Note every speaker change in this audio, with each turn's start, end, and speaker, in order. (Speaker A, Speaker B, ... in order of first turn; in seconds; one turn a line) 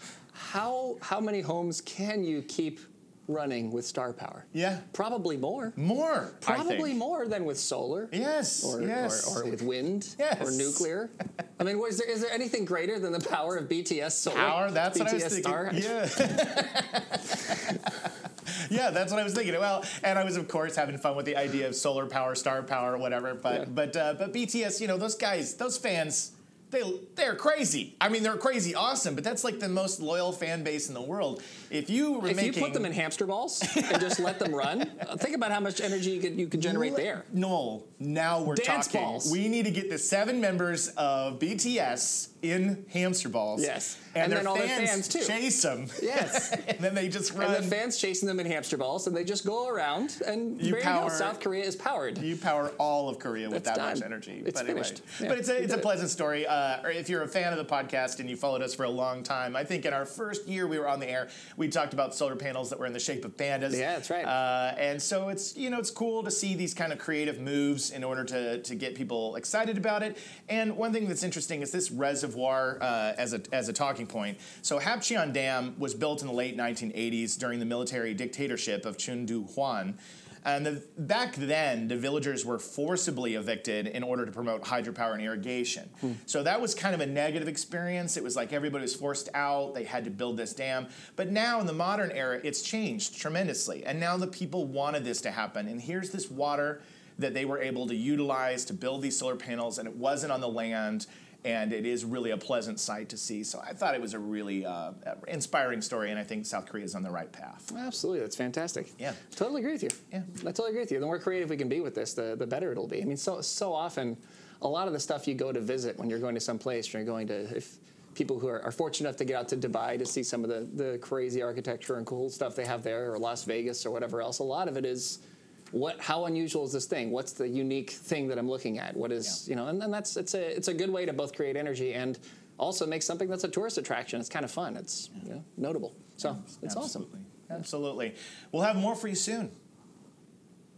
Speaker A: 0.3-5.8
Speaker B: 4.5-4.9
Speaker B: 5.8-7.0
Speaker A: 6.4-16.0
Speaker B: 8.1-9.6
Speaker B: 10.2-10.8
Speaker B: 14.3-32.9
Speaker A: 32.2-37.3
Speaker B: 33.6-34.8
Speaker B: 36.6-47.8
Speaker A: 38.5-39.4
Speaker A: 43.6-45.4
Speaker A: 46.0-46.6
Speaker A: 47.4-52.3
Speaker B: 50.6-51.4
Speaker B: 52.2-107.7
Speaker A: 53.5-55.9
Speaker A: 63.7-64.3
Speaker A: 107.7-125.2
Speaker A: 125.7-137.1
Speaker B: 136.2-139.5